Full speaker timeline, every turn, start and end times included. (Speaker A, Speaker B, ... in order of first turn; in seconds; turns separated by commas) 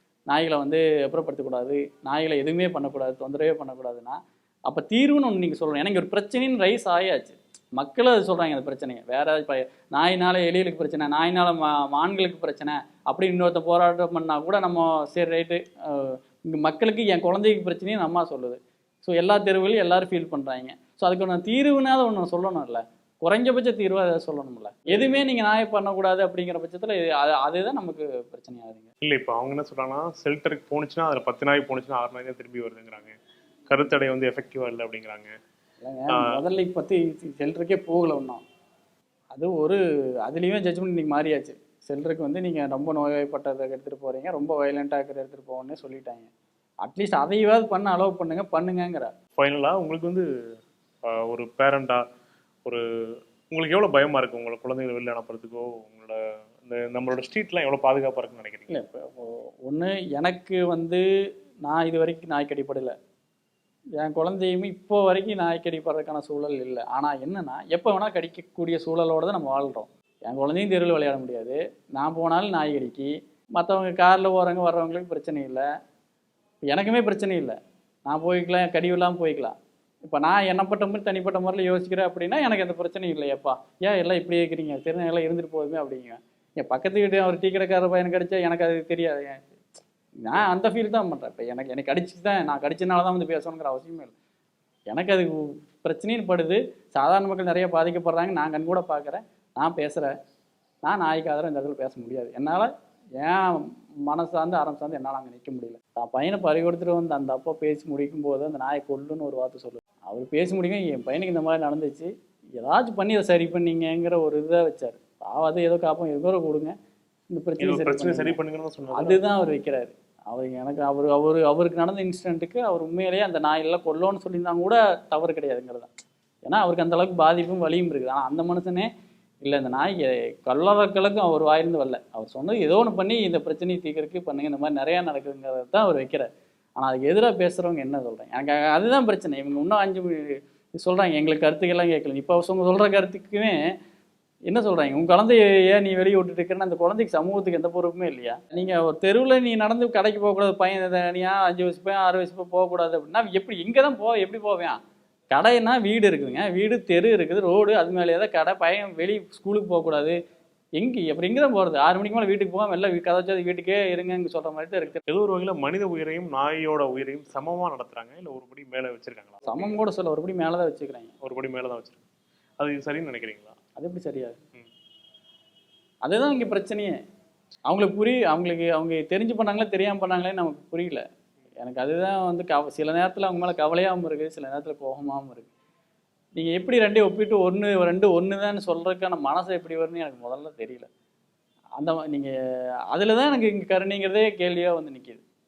Speaker A: 0.3-28.9, Speaker B: 24.9-25.1, Speaker B: 29.0-33.1, Speaker B: 33.7-35.3, Speaker A: 35.8-38.4, Speaker A: 39.3-46.3, Speaker A: 46.8-49.1, Speaker B: 49.4-50.2, Speaker B: 51.0-52.0, Speaker B: 53.5-58.8, Speaker A: 58.7-61.0, Speaker A: 61.6-62.9, Speaker A: 64.0-75.6, Speaker A: 76.6-79.5, Speaker A: 80.0-89.5, Speaker A: 90.2-94.1, Speaker A: 94.9-100.1, Speaker A: 100.8-116.7, Speaker A: 117.3-118.4, Speaker B: 117.6-119.2, Speaker A: 118.9-125.9, Speaker A: 126.5-128.9, Speaker A: 129.4-136.3, Speaker A: 136.8-143.6, Speaker A: 144.5-154.8, Speaker A: 155.3-160.2, Speaker A: 160.8-165.0, Speaker B: 165.1-169.7, Speaker A: 169.4-171.1, Speaker B: 171.2-172.0, Speaker B: 172.6-173.5, Speaker A: 173.8-174.4, Speaker A: 176.0-176.9, Speaker A: 177.7-181.0, Speaker A: 181.6-185.5, Speaker A: 186.3-190.9, Speaker A: 191.8-192.3, Speaker A: 192.9-195.2